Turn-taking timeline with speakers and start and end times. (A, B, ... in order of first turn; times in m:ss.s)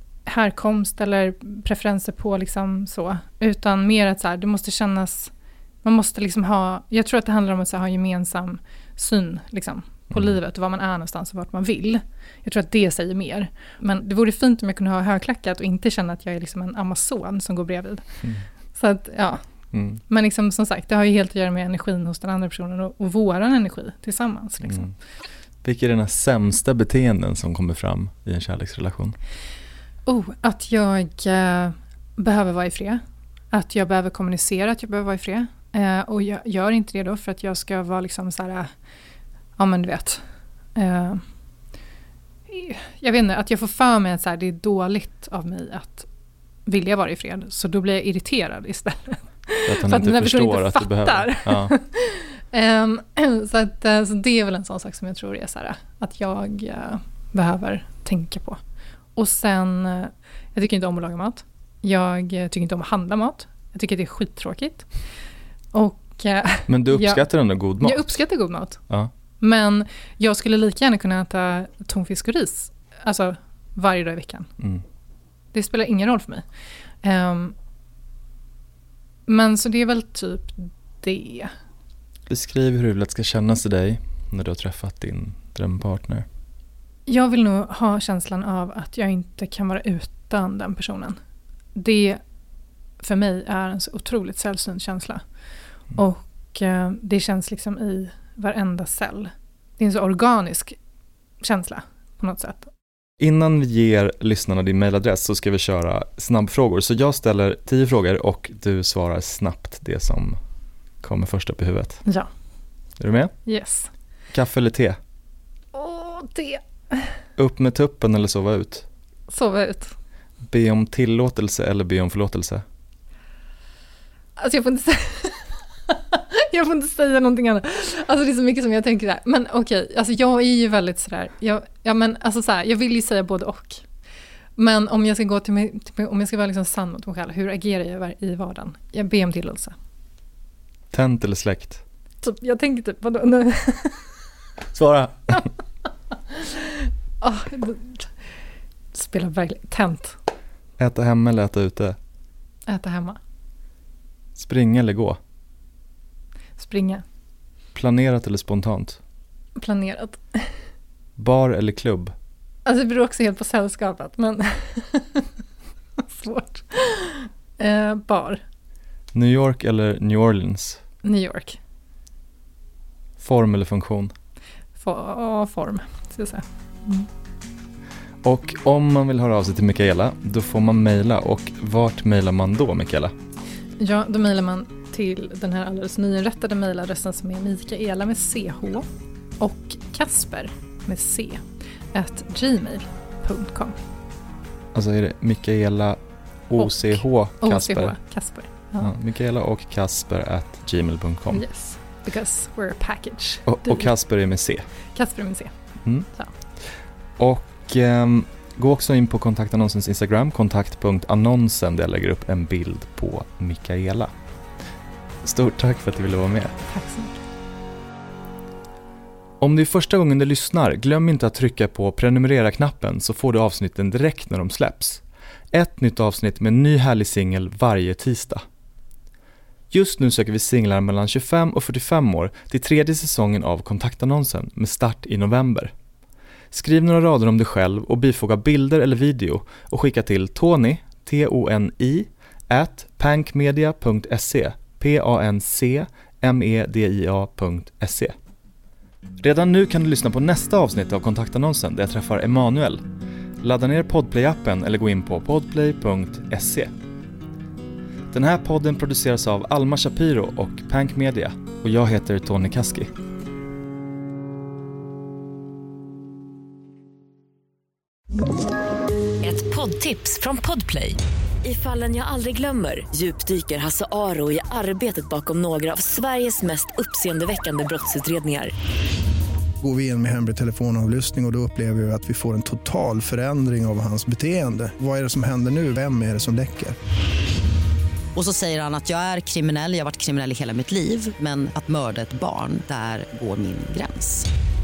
0:00.3-0:05.3 A
0:05.8-0:18.0 A
0:10.1-0:10.4 B
0:18.7-0:19.4 A
0:19.7-0:20.0 B
0:20.0-0:24.9 A
0:24.7-0:24.9 B
0:25.6-0:29.2 B
0:30.1-0:38.7 A
0:39.6-0:40.2 A
0:40.8-0:41.2 A
0:42.5-0:46.1 A
0:46.7-0:58.6 A
0:49.7-0:51.7 B
0:59.2-1:04.9 A
1:05.7-1:08.8 A
1:06.7-1:08.1 B
1:09.4-1:14.5 A
1:15.5-1:16.4 A
1:17.0-1:17.6 A
1:19.3-1:21.5 A
1:22.3-1:26.2 B
1:27.1-1:31.2 A
1:31.8-1:32.2 A
1:33.0-1:35.2 A
1:35.9-1:40.8 A
1:41.4-1:42.7 A
1:43.2-1:50.4 B
1:51.0-1:52.0 B
1:53.0-1:53.3 B
1:53.5-1:53.9 A
1:54.3-1:55.0 B
1:55.7-1:57.2 A
1:57.4-1:58.9 B
1:59.3-2:00.0 A
2:00.5-2:02.6 B
2:04.4-2:13.8 A
2:14.6-2:19.7 A
2:20.9-2:21.8 B
2:22.2-2:24.2 A
2:24.7-2:25.5 B
2:26.1-2:28.2 A
2:28.9-2:30.2 A
2:30.8-2:32.0 B
2:32.7-2:33.2 A
2:34.4-2:35.2 B
2:36.6-2:37.0 A
2:37.8-2:39.0 B
2:39.6-2:40.5 A
2:41.2-2:42.1 B
2:42.6-2:45.3 A
2:46.0-2:48.4 A
2:49.1-2:50.8 B
2:51.0-2:51.6 A
2:53.2-2:54.1 B
2:54.8-2:57.1 A
2:58.2-3:03.1 B
3:03.8-3:08.8 A
3:09.4-3:11.4 A
3:11.9-3:13.8 A
3:14.7-3:18.0 B
3:16.6-3:18.9 A
3:18.8-3:21.4 B
3:21.3-3:23.9 A
3:23.5-3:24.6 B
3:24.9-3:25.5 A
3:26.0-3:26.3 A
3:27.2-3:34.1 B
3:35.2-3:36.6 B
3:36.7-3:37.2 A
3:39.4-3:48.4 B
3:49.7-3:55.7 B
3:56.5-4:08.1 B
4:09.2-4:12.8 B
4:13.4-4:16.7 B
4:18.1-4:22.9 B
4:29.2-4:38.5 C
4:39.6-4:46.8 D
4:48.2-4:54.3 E